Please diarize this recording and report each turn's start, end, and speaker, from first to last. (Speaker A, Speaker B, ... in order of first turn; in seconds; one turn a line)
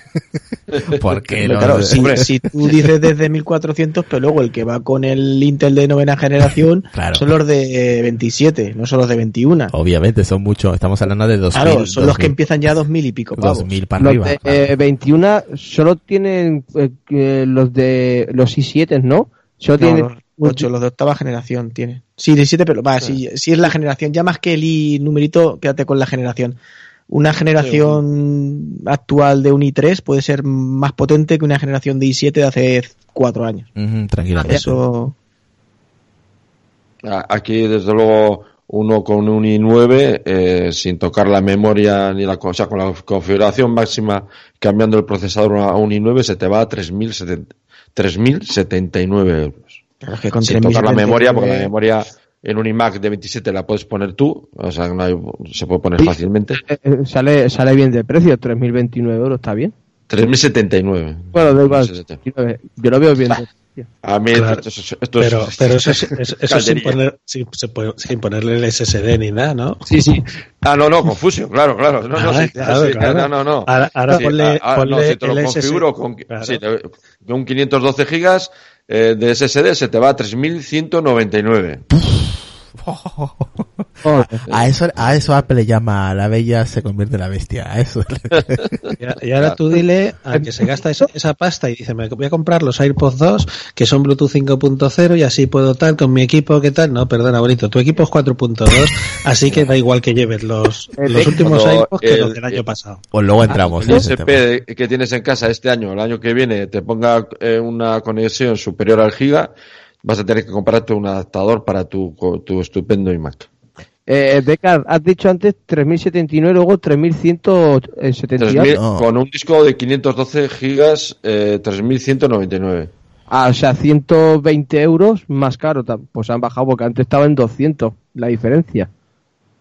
Speaker A: 0.1-2.2
Speaker B: 0.7-1.1
Speaker C: 1.4-9.7
Speaker B: 1.9-2.3
Speaker A: 6.9-7.2
Speaker A: 9.7-12.3
Speaker C: 11.5-13.7
Speaker A: 13.3-14.7
Speaker D: 14.0-20.7
Speaker C: 19.8-26.6
Speaker C: 27.1-33.7
Speaker B: 27.6-28.0
Speaker A: 33.8-34.8
Speaker C: 34.4-35.1
Speaker B: 37.0-49.8
Speaker C: 50.0-51.7
Speaker B: 50.4-56.6
Speaker D: 56.0-59.7
Speaker B: 60.1-62.2
Speaker D: 61.3-63.9
Speaker B: 64.0-67.0
Speaker E: 64.3-64.6
Speaker E: 65.2-69.8
Speaker D: 69.9-70.2
Speaker B: 70.6-81.8
Speaker E: 72.1-76.6
Speaker A: 81.9-83.8
Speaker D: 84.0-84.4
Speaker A: 84.4-88.8
Speaker B: 88.3-88.9
Speaker E: 89.0-103.0
Speaker D: 101.0-101.5
Speaker B: 101.2-102.6
Speaker A: 103.1-104.4
Speaker B: 103.5-109.5
Speaker B: 110.0-113.5
Speaker D: 114.1-118.7
Speaker B: 118.4-122.9
Speaker A: 118.7-119.0
Speaker D: 123.3-128.9